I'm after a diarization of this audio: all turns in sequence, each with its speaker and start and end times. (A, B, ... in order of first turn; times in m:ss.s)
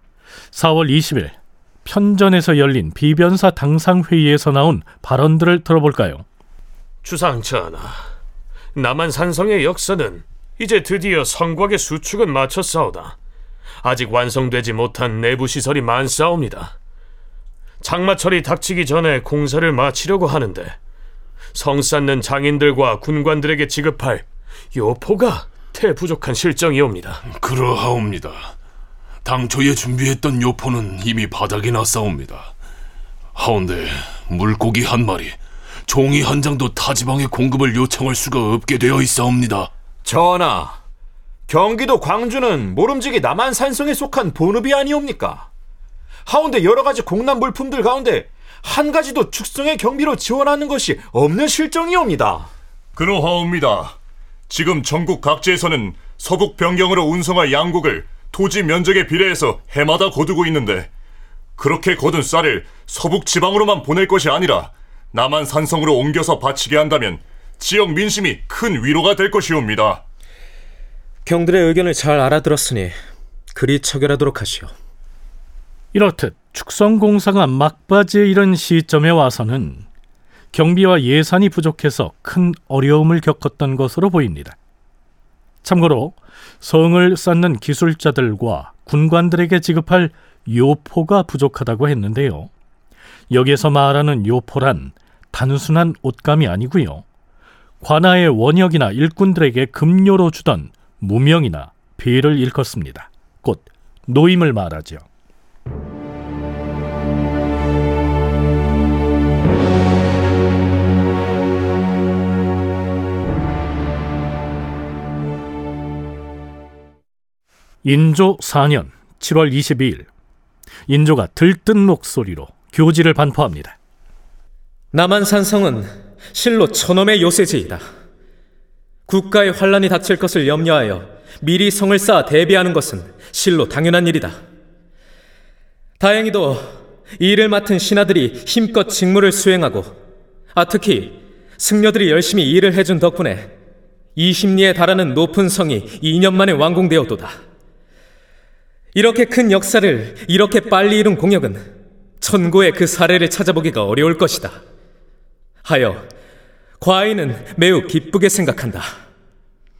0:00.5-0:06.2 A
0:07.0-0:08.0 B
0:08.8-0:13.2 B
0:13.8-0:16.7 B
0:17.8-0:20.8 B
0:21.5-0:27.2 B
0:27.2-0:28.6 C
0:29.2-0:32.5 C
0:33.4-0:39.7 C
0:40.1-0:40.8 D
0:41.5-0:45.4 D
0:46.2-0:52.5 D
0:53.0-0:54.0 E
0:54.5-1:00.9 E
1:01.6-1:10.0 E
1:11.3-1:13.0 F
1:13.5-1:14.7 F
1:15.9-1:19.8 A
1:20.5-1:24.6 A
1:25.6-1:32.5 A
1:33.3-1:37.0 A
1:37.8-1:45.0 A
1:57.8-2:00.1 A
2:00.9-2:03.8 A
2:04.9-2:07.8 F
2:09.1-2:14.4 F
2:16.0-2:20.0 F
2:20.6-2:23.5 F
2:24.2-2:27.4 F
2:29.0-2:34.6 F
2:35.6-2:36.1 F
2:36.8-2:38.9 F